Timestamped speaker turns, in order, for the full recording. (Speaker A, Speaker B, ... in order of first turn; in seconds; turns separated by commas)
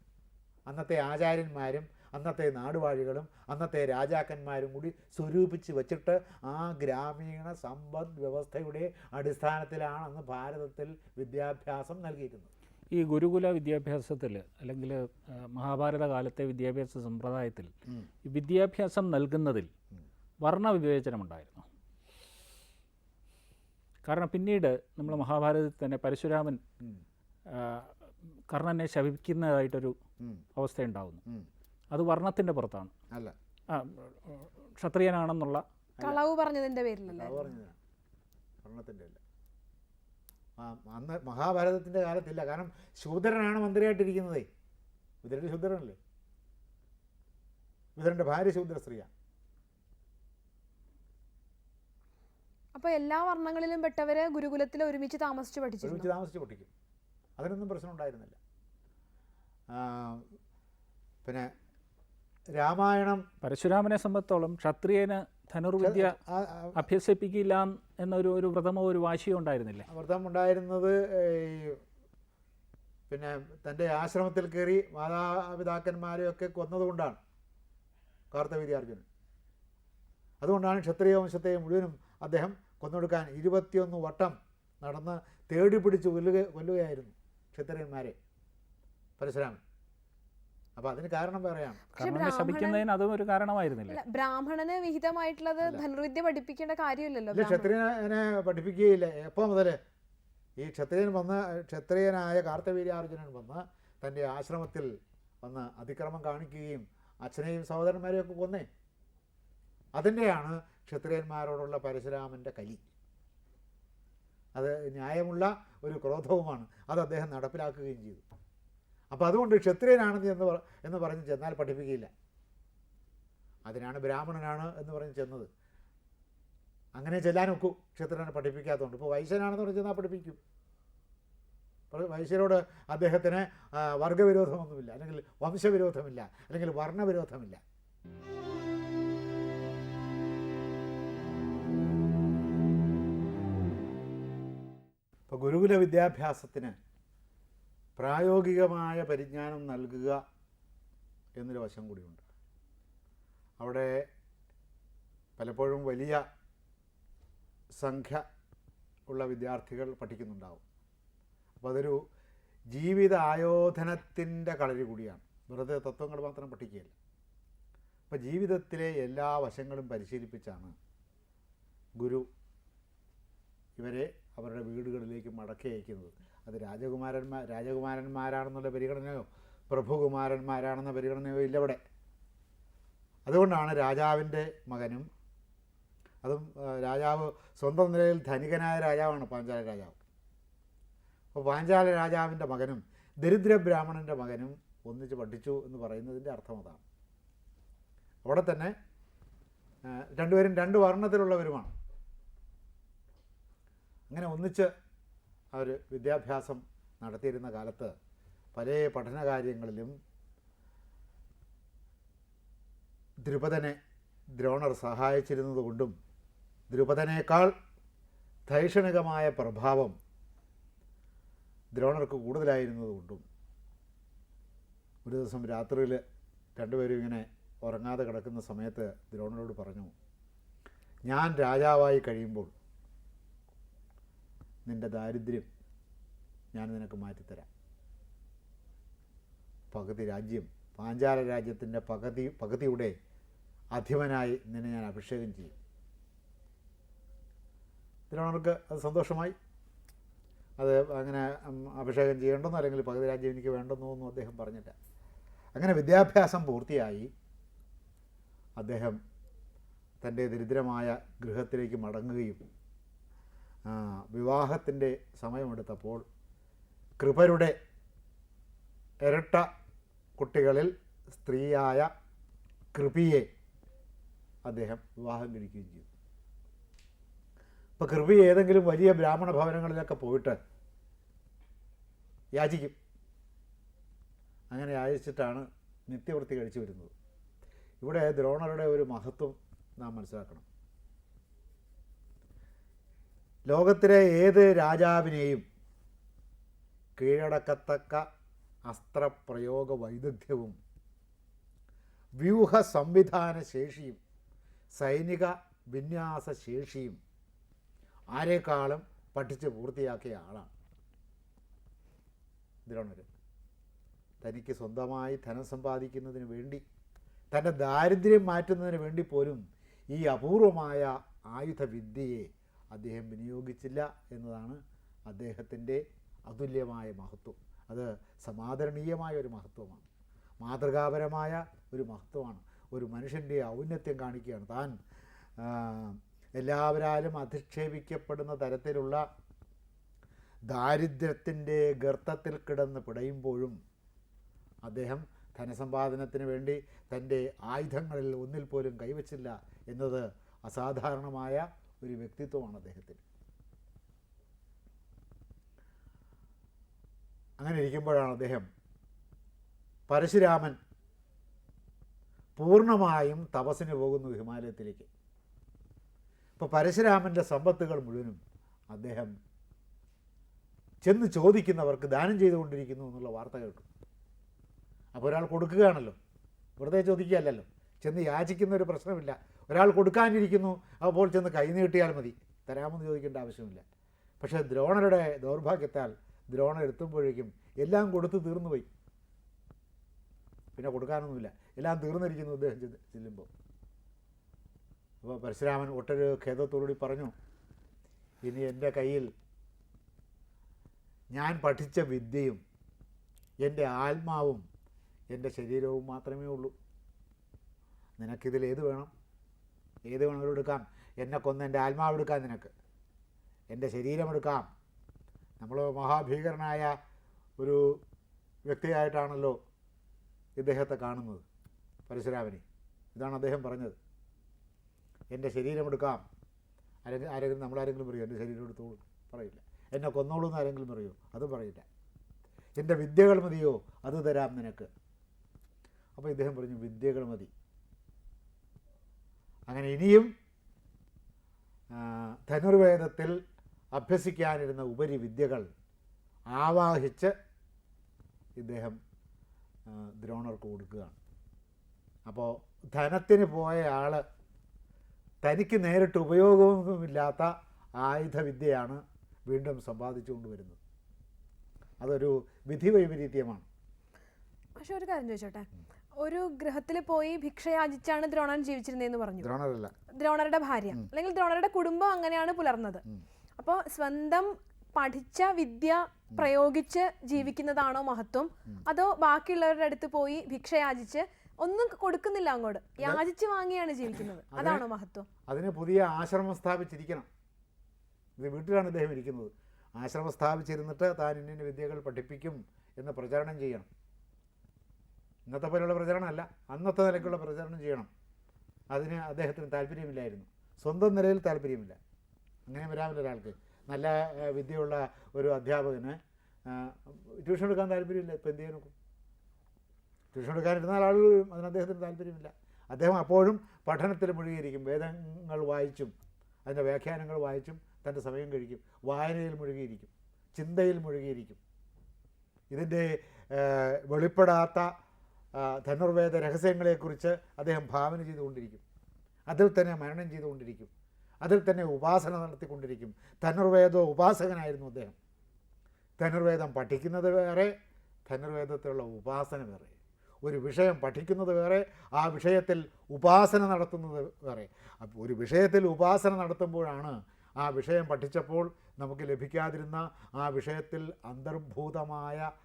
Speaker A: 0.7-12.5, Speaker B: 12.9-17.7, Speaker B: 18.2-19.7, Speaker B: 20.4-21.7, Speaker B: 24.0-26.6, Speaker B: 27.5-27.9, Speaker B: 28.5-29.9, Speaker A: 30.2-30.4, Speaker B: 30.5-31.2, Speaker B: 31.9-32.9, Speaker B: 33.7-35.6, Speaker C: 36.0-37.5, Speaker A: 37.1-37.8, Speaker A: 38.6-39.2, Speaker A: 40.6-44.5, Speaker A: 45.2-46.0, Speaker A: 48.0-49.1, Speaker C: 52.7-56.1, Speaker A: 55.8-56.7, Speaker A: 57.4-58.4, Speaker A: 59.7-60.3, Speaker A: 61.2-61.5, Speaker A: 62.5-63.2, Speaker B: 63.4-66.2, Speaker A: 65.8-66.8, Speaker B: 66.7-69.9, Speaker A: 69.9-71.8, Speaker A: 73.1-77.2, Speaker A: 78.3-79.0, Speaker A: 80.4-88.2, Speaker A: 89.2-89.6, Speaker A: 90.8-91.8, Speaker C: 91.9-92.8, Speaker B: 92.0-94.0, Speaker C: 93.9-97.7, Speaker A: 97.3-99.8, Speaker A: 100.6-104.9, Speaker A: 105.4-108.7, Speaker A: 109.9-112.8, Speaker A: 114.5-118.2, Speaker A: 119.1-122.1, Speaker A: 123.7-125.5, Speaker A: 127.0-130.4, Speaker A: 131.9-137.6, Speaker A: 145.3-146.7, Speaker A: 148.0-150.2, Speaker A: 151.4-152.2, Speaker A: 153.6-154.1, Speaker A: 155.4-156.2, Speaker A: 157.8-158.2, Speaker A: 159.1-160.6, Speaker A: 161.6-162.0, Speaker A: 162.7-166.9, Speaker A: 168.1-170.7, Speaker A: 172.0-172.3, Speaker A: 173.8-181.8, Speaker A: 183.2-185.1, Speaker A: 186.2-190.0, Speaker A: 191.3-196.8, Speaker A: 198.2-198.7, Speaker A: 199.8-201.7, Speaker A: 204.1-204.7, Speaker A: 205.5-207.9, Speaker A: 208.5-209.9, Speaker A: 213.2-213.8, Speaker A: 214.3-215.9, Speaker A: 216.7-217.5, Speaker A: 218.5-219.9, Speaker A: 221.7-223.2, Speaker A: 225.1-226.0, Speaker A: 226.6-229.9, Speaker A: 231.1-232.5, Speaker A: 234.7-235.5, Speaker A: 236.5-237.5, Speaker A: 239.7-242.9, Speaker A: 243.7-245.5, Speaker A: 248.1-249.3, Speaker A: 250.6-254.7, Speaker A: 255.6-257.1, Speaker A: 258.6-259.0, Speaker A: 260.0-262.4, Speaker A: 263.7-266.0, Speaker A: 267.0-267.5, Speaker A: 269.0-269.4, Speaker A: 270.2-271.9, Speaker A: 272.7-273.3, Speaker A: 274.4-275.9, Speaker A: 277.8-280.4, Speaker A: 282.3-282.8, Speaker A: 284.5-286.9, Speaker A: 287.8-290.4, Speaker A: 293.5-295.4, Speaker A: 297.0-298.0, Speaker A: 298.7-300.6, Speaker A: 302.2-304.0, Speaker A: 304.8-307.0, Speaker A: 308.1-310.5, Speaker A: 312.6-313.1, Speaker A: 314.2-316.6, Speaker A: 317.3-329.8, Speaker A: 330.4-334.8, Speaker A: 335.4-339.0, Speaker A: 340.5-343.6, Speaker A: 344.6-353.0, Speaker A: 357.4-358.5, Speaker A: 359.9-360.6, Speaker A: 362.4-364.9, Speaker A: 366.4-368.2, Speaker A: 368.7-369.1, Speaker A: 370.8-373.6, Speaker A: 374.9-376.0, Speaker A: 376.6-383.6, Speaker A: 384.2-388.7, Speaker A: 390.6-393.3, Speaker A: 395.0-397.1, Speaker A: 398.2-399.1, Speaker A: 401.1-402.4, Speaker A: 403.4-404.4, Speaker A: 405.1-406.5, Speaker A: 408.0-408.9, Speaker A: 409.9-412.5, Speaker A: 413.5-414.5, Speaker A: 415.4-416.8, Speaker A: 417.4-417.8, Speaker A: 418.5-419.4, Speaker A: 420.4-421.2, Speaker A: 421.9-422.4, Speaker A: 422.9-423.8, Speaker A: 425.1-426.0, Speaker A: 426.8-431.6, Speaker A: 432.6-434.7, Speaker A: 435.9-437.3, Speaker A: 439.5-440.1, Speaker A: 441.7-443.2, Speaker A: 443.7-445.5, Speaker A: 446.3-447.1, Speaker A: 448.4-448.8, Speaker A: 449.7-450.9, Speaker A: 452.1-454.0, Speaker A: 455.2-460.6, Speaker A: 461.8-463.4, Speaker C: 464.6-465.5, Speaker C: 466.0-469.3, Speaker A: 469.2-469.7, Speaker C: 469.9-472.8, Speaker C: 473.4-485.1, Speaker A: 484.0-484.6, Speaker A: 485.3-487.1, Speaker A: 488.2-493.7, Speaker A: 495.3-497.9, Speaker A: 498.7-501.8, Speaker A: 502.5-508.7, Speaker A: 510.1-515.9, Speaker A: 516.5-521.4, Speaker A: 522.5-524.7, Speaker A: 525.4-528.6, Speaker A: 529.3-530.7, Speaker A: 531.2-535.0, Speaker A: 536.0-537.5, Speaker A: 538.1-552.3